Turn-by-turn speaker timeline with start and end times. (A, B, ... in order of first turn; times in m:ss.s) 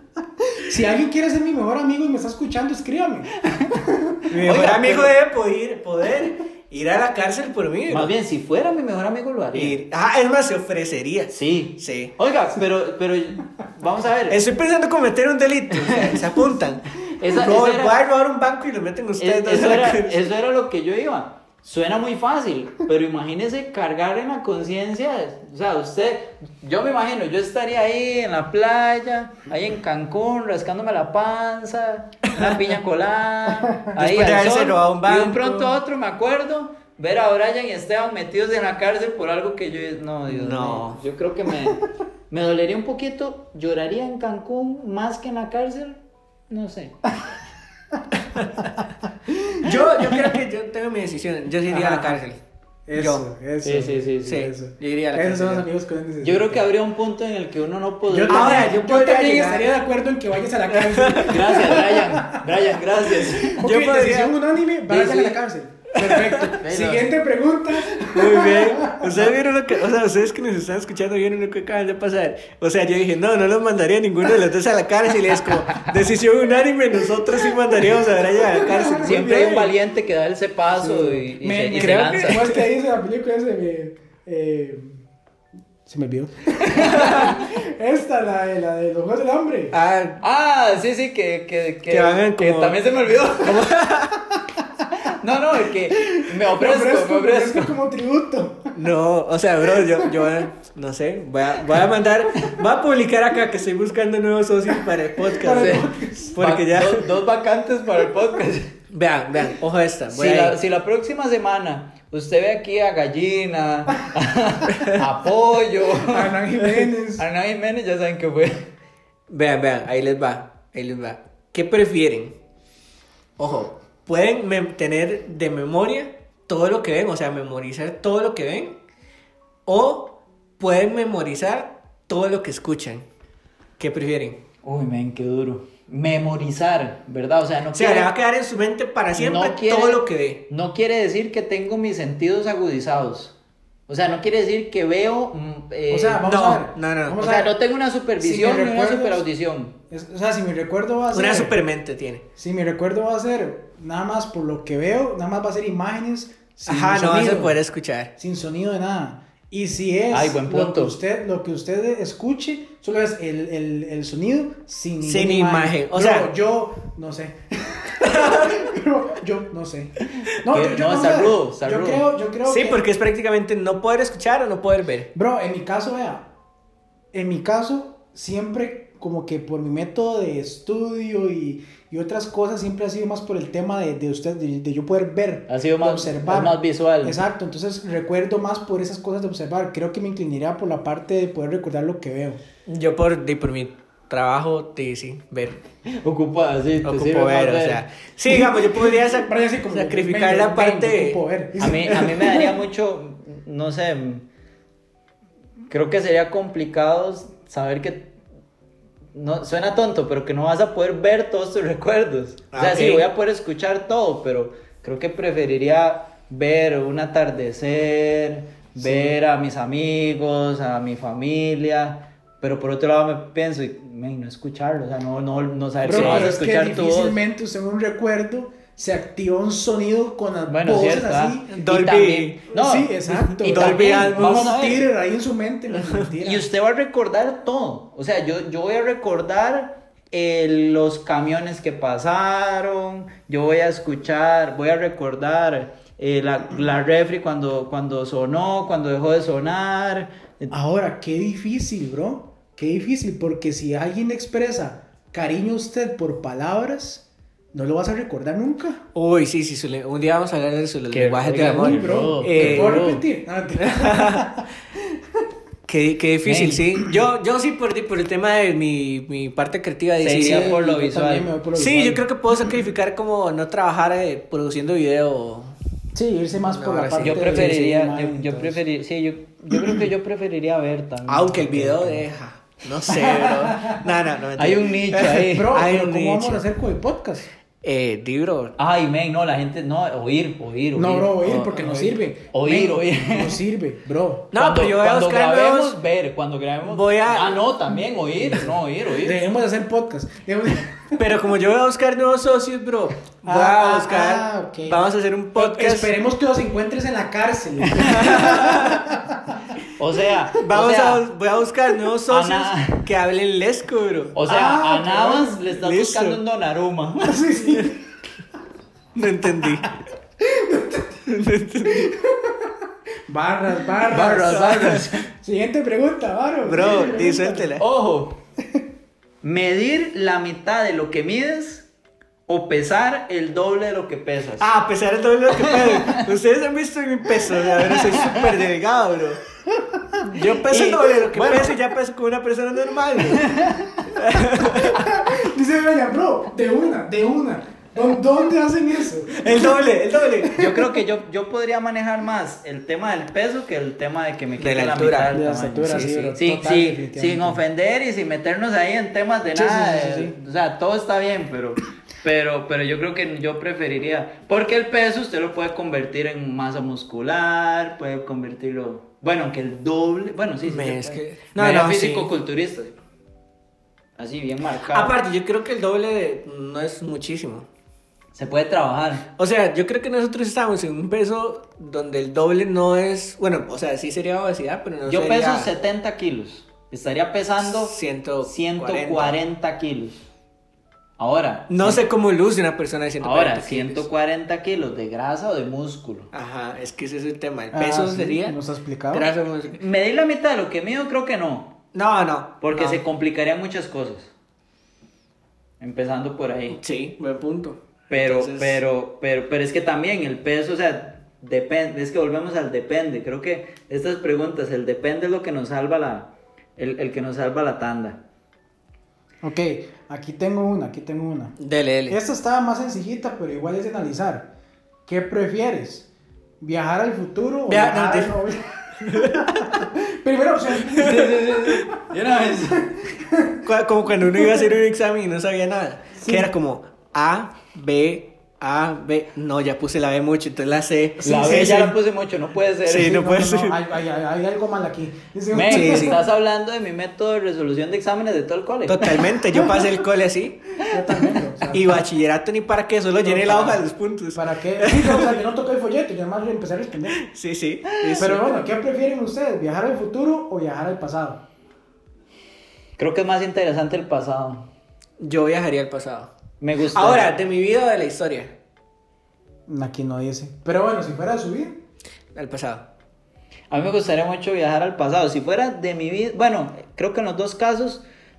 0:00.6-0:04.2 A
0:03.4-0:03.8 B
0:04.3-0:08.1 C
0:04.4-0:05.1 B
0:07.9-0:09.8 B
0:09.5-0:12.1 C
0:11.3-0:14.4 B
0:14.3-0:20.2 C
0:16.0-0:16.3 B
0:17.0-0:18.0 B
0:19.2-0:47.1 B
0:34.0-0:35.8 C
0:40.3-0:41.0 C
0:48.2-0:48.5 C
0:49.3-0:49.7 A
0:49.6-0:52.4 C
0:51.7-0:52.2 A
0:52.8-0:56.6 A
0:53.0-0:53.2 C
0:53.6-0:54.5 B
0:54.2-0:55.7 C
0:56.2-0:58.8 B
0:58.1-1:09.3 A
0:58.3-0:59.7 C
1:00.7-1:01.5 C
1:01.2-1:03.6 B
1:03.5-1:04.4 C
1:04.9-1:05.4 C
1:05.9-1:06.5 C
1:06.5-1:07.1 B
1:08.0-1:19.7 C
1:18.5-1:19.2 A
1:18.9-1:22.5 B
1:20.8-1:25.0 A
1:21.8-1:22.6 C
1:25.8-1:29.8 A
1:26.6-1:27.4 B
1:26.8-1:27.3 C
1:29.7-1:30.2 C
1:30.2-1:33.7 B
1:31.9-1:32.8 C
1:33.4-1:34.2 C
1:35.0-1:37.8 B
1:35.8-1:38.7 A
1:38.8-1:47.1 C
1:39.7-1:40.4 A
1:45.3-1:46.3 A
1:45.4-1:48.7 B
1:48.9-1:50.6 C
1:50.1-1:56.4 B
1:56.0-1:57.3 A
1:57.2-1:58.6 B
1:59.3-2:02.4 C
2:03.4-2:08.8 C
2:09.6-2:13.1 C
2:13.8-2:14.4 C
2:14.6-2:18.1 B
2:17.7-2:20.4 C
2:19.1-2:23.4 B
2:23.9-2:26.2 B
2:25.9-2:27.5 A
2:26.2-2:27.2 C
2:27.2-2:29.8 B
2:28.2-2:29.2 A
2:29.9-2:31.6 A
2:31.1-2:32.2 C
2:32.4-2:37.6 A
2:36.6-2:38.1 C
2:38.2-2:52.8 A
2:40.1-2:41.0 B
2:45.0-2:46.3 C
2:48.0-2:48.6 C
2:50.4-2:52.0 B
2:52.4-2:55.1 C
2:55.1-2:56.3 A
2:57.1-3:12.4 A
3:05.5-3:07.2 B
3:12.6-3:15.6 C
3:15.9-3:17.8 B
3:16.8-3:21.2 C
3:18.3-3:22.5 A
3:21.6-3:24.2 B
3:25.7-3:28.1 B
3:29.1-3:47.2 B
3:32.5-3:33.1 C
3:38.8-3:39.2 A
3:45.8-3:51.5 A
3:45.9-3:46.3 C
3:50.5-3:54.8 B
3:51.5-3:52.4 C
3:52.5-3:56.5 A
3:53.1-3:54.6 C
3:55.7-3:56.0 C
3:56.2-4:10.5 B
4:10.5-4:18.8 A
4:18.9-4:22.8 C
4:20.9-4:23.0 B
4:21.5-4:25.2 A
4:23.6-4:24.3 C
4:25.7-4:30.6 C
4:26.2-4:26.8 B
4:30.0-4:31.3 B
4:30.1-4:32.0 A
4:31.6-4:35.6 C
4:35.9-4:38.6 A
4:36.4-4:37.5 C
4:37.0-4:42.1 B
4:39.5-4:39.8 A
4:41.1-4:46.4 C
4:42.9-4:43.8 A
4:44.4-4:45.5 B
4:45.0-4:47.3 A
4:47.6-4:48.6 C
4:48.6-4:53.4 B
4:50.7-4:54.3 A
4:54.3-4:55.8 C
4:54.3-4:59.2 B
4:56.6-4:57.4 C
4:59.0-5:01.0 A
5:00.9-5:05.9 C
5:03.2-5:04.8 A
5:05.4-5:09.4 A
5:07.7-5:08.2 B
5:07.8-5:08.8 C
5:09.8-5:11.0 B
5:10.4-5:14.1 C
5:12.1-5:12.8 B
5:14.1-5:17.3 B
5:14.3-5:15.4 A
5:15.6-5:16.2 C
5:17.0-5:17.8 A
5:18.9-5:19.7 C
5:20.2-5:21.0 A
5:21.1-5:21.9 C
5:21.7-5:22.6 A
5:23.1-5:27.5 A
5:23.8-5:25.1 B
5:24.3-5:24.9 C
5:26.4-5:27.6 C
5:27.6-5:28.2 B
5:29.2-5:31.7 B
5:32.3-5:34.5 B
5:34.4-5:39.2 C
5:35.3-5:36.1 B
5:37.6-5:38.4 B
5:39.5-5:40.0 A
5:40.1-5:43.3 C
5:40.3-5:41.6 B
5:43.1-5:43.7 B
5:43.9-5:44.8 C
5:44.7-5:49.6 A
5:49.1-5:50.3 C
5:50.2-5:50.7 A
5:50.3-6:12.7 B
5:54.4-5:55.2 C
5:55.1-5:57.4 A
5:55.7-5:56.1 C
5:59.3-6:00.2 A
6:10.4-6:12.1 C
6:14.0-6:15.0 B
6:14.7-6:17.5 C
6:18.1-6:19.0 B
6:19.2-6:25.5 C
6:24.8-6:30.0 B
6:27.4-6:29.1 C
6:31.0-6:31.8 B
6:31.5-6:33.8 C
6:33.0-6:36.1 B
6:36.1-6:38.4 C
6:37.5-6:39.1 A
6:38.9-6:39.6 C
6:39.6-6:41.6 B
6:41.7-6:42.8 C
6:42.4-6:44.1 B
6:45.6-6:46.6 B
6:46.5-6:48.6 C
6:47.9-6:58.0 B
6:59.2-7:01.4 A
7:01.4-7:02.0 C
7:01.9-7:04.3 A
7:04.9-7:05.9 A
7:06.4-7:11.7 A
7:07.5-7:08.2 C
7:08.8-7:09.6 C
7:10.8-7:12.9 B
7:12.6-7:13.4 A
7:13.4-7:21.8 C
7:16.0-7:16.3 A
7:21.0-7:23.1 B
7:22.7-7:23.6 C
7:22.8-7:26.0 A
7:25.3-7:29.0 B
7:25.5-7:26.0 C
7:28.7-7:30.4 C
7:30.7-7:31.8 A
7:30.8-7:31.2 B
7:31.5-7:35.2 C
7:33.0-7:33.6 A
7:34.1-7:37.0 A
7:36.9-7:38.2 C
7:37.9-7:41.2 A
7:42.8-7:44.4 B
7:45.0-7:46.1 C
7:46.4-7:47.1 B
7:46.7-7:48.3 C
7:49.5-7:51.6 A
7:52.1-7:52.7 C
7:53.5-7:57.8 B